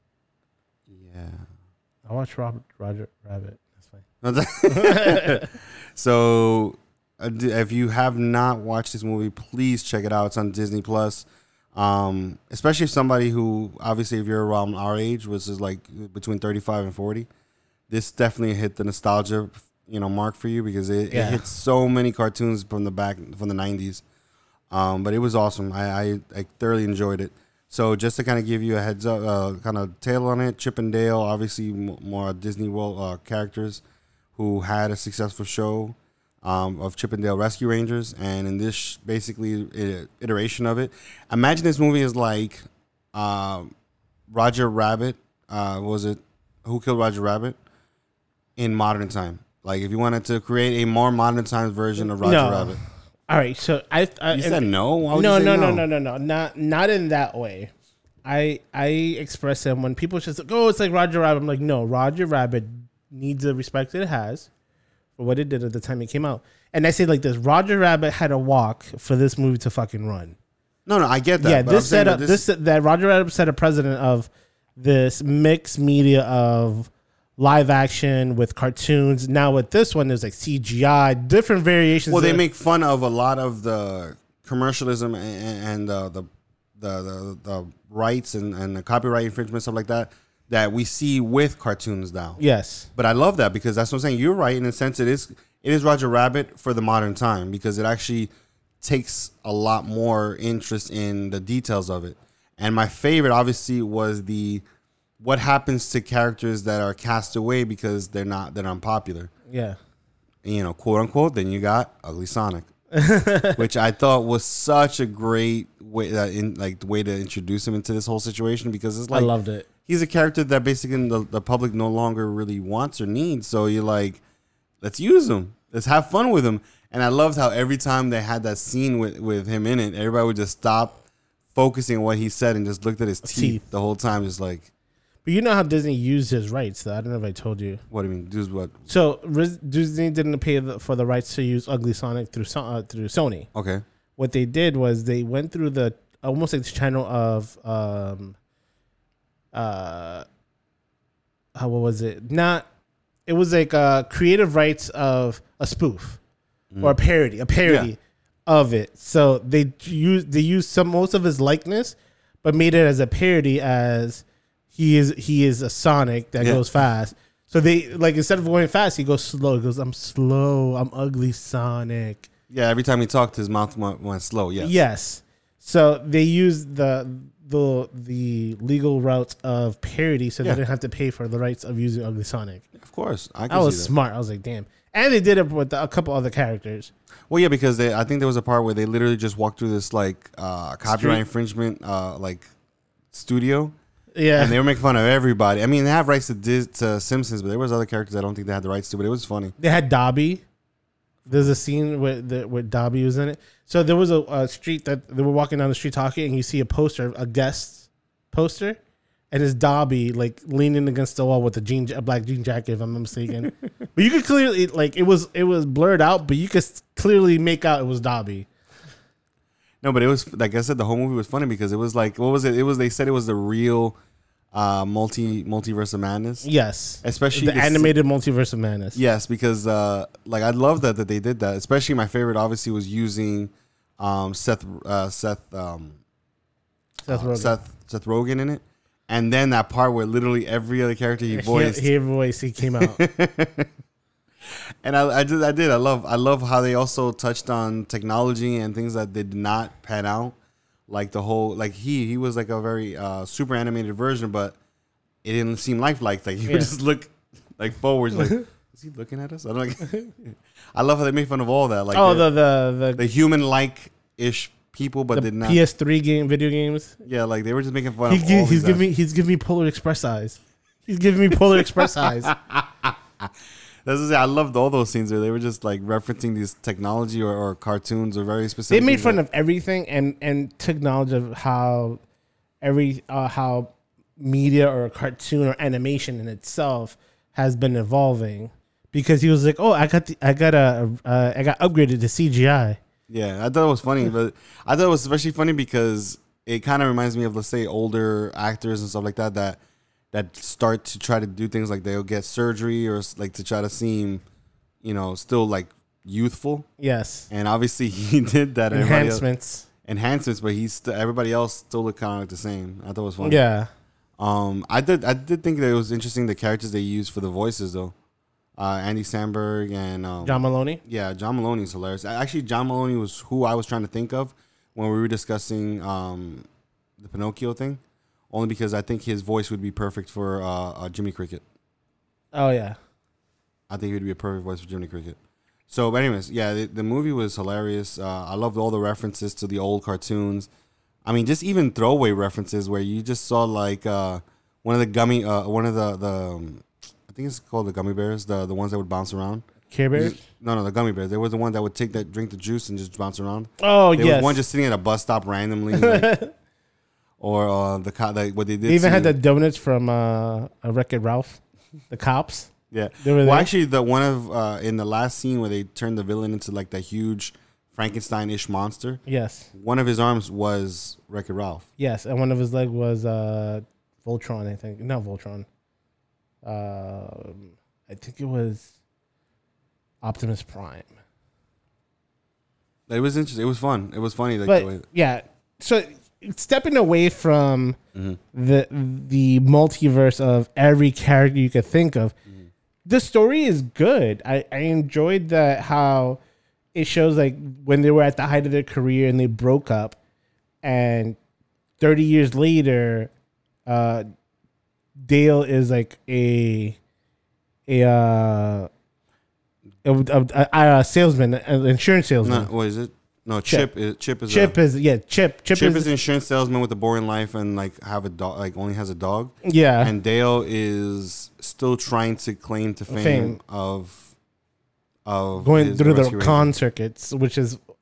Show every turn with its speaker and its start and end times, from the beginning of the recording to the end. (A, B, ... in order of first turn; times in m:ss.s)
0:00.9-0:01.4 A
0:02.0-0:04.0 B
0:04.2-0:17.3 A
0:04.7-0:05.4 B
0:17.9-0:24.0 A
0:21.1-0:21.4 B
0:24.7-0:33.8 A
0:34.4-0:43.7 A
0:44.3-0:47.6 A
0:48.6-0:52.8 A
0:52.1-0:57.7 B
0:54.3-0:55.8 A
0:58.2-1:04.5 B
1:05.2-1:10.3 B
1:10.8-1:12.4 A
1:11.4-1:22.4 B
1:22.1-1:32.4 A
1:32.4-1:32.9 B
1:32.9-1:44.6 A
1:45.2-1:49.3 A
1:49.5-1:49.8 B
1:50.4-1:52.7 A
1:52.9-1:53.6 B
1:53.5-1:59.3 A
1:59.1-1:59.6 B
1:59.9-2:04.2 A
2:04.8-2:11.0 A
2:11.5-2:14.7 A
2:13.2-2:13.6 B
2:15.2-2:17.8 B
2:17.9-2:18.9 A
2:18.9-2:23.5 B
2:23.5-2:23.8 A
2:24.2-2:28.4 B
2:29.5-2:30.2 B
2:31.5-2:32.6 B
2:33.3-2:36.2 B
2:36.7-2:37.0 A
2:36.8-2:52.3 B
2:37.6-2:37.9 A
2:46.4-2:46.6 A
2:52.5-2:54.7 A
2:54.6-3:02.6 B
3:02.8-3:03.9 A
3:03.5-3:06.9 B
3:07.3-3:12.5 A
3:10.8-3:11.2 B
3:13.1-3:13.7 A
3:14.1-3:14.6 B
3:14.4-3:19.5 A
3:19.6-3:20.4 B
3:21.2-3:21.5 A
3:21.3-3:28.8 B
3:29.3-3:38.5 B
3:39.8-3:44.0 A
3:44.5-3:46.5 A
3:46.4-3:49.0 B
3:47.0-3:47.9 A
3:48.9-3:56.0 A
3:57.0-3:57.6 B
3:57.0-4:01.9 A
4:01.3-4:03.0 B
4:02.6-4:03.7 A
4:04.8-4:10.4 A
4:10.9-4:14.6 A
4:15.2-4:22.3 A
4:16.4-4:16.7 B
4:18.2-4:18.4 B
4:21.9-4:23.0 B
4:23.0-4:25.6 A
4:25.1-4:27.0 B
4:27.0-4:28.8 A
4:28.1-4:32.3 B
4:31.8-4:33.3 A
4:33.8-4:39.2 A
4:38.7-4:42.0 B
4:42.6-4:52.8 B
4:53.1-4:59.6 A
5:00.1-5:04.2 A
5:04.8-5:06.7 A
5:06.8-5:07.3 B
5:07.3-5:09.2 A
5:08.7-5:09.6 B
5:09.8-5:13.4 A
5:13.2-5:13.7 B
5:14.2-5:17.9 A
5:18.6-5:26.4 A
5:20.2-5:20.8 B
5:27.0-5:31.4 A
5:32.3-5:32.8 B
5:33.7-5:35.2 A
5:35.7-5:40.5 A
5:41.0-5:49.4 A
5:49.7-5:50.2 B
5:49.9-5:56.1 A
5:53.6-5:54.4 B
5:55.8-5:56.3 B
5:57.2-5:59.1 A
5:58.6-6:03.5 B
6:02.7-6:09.0 A
6:09.0-6:09.5 B
6:09.5-6:11.7 A
6:11.8-6:15.4 B
6:16.4-6:18.7 B
6:20.0-6:20.9 B
6:22.9-6:24.8 A
6:24.4-6:27.8 B
6:28.3-6:32.1 B
6:32.8-6:36.2 B
6:36.7-6:40.0 B
6:40.6-6:41.2 B
6:41.8-6:43.1 B
6:43.6-6:44.0 B
6:45.0-6:46.8 B
6:47.7-6:48.7 B
6:49.8-6:52.5 B
6:52.2-6:54.6 A
6:53.4-6:53.7 B
6:54.3-6:55.9 B
6:55.5-7:04.1 A
6:59.4-6:59.9 B
7:02.9-7:03.4 B
7:05.0-7:06.5 A
7:05.4-7:07.6 B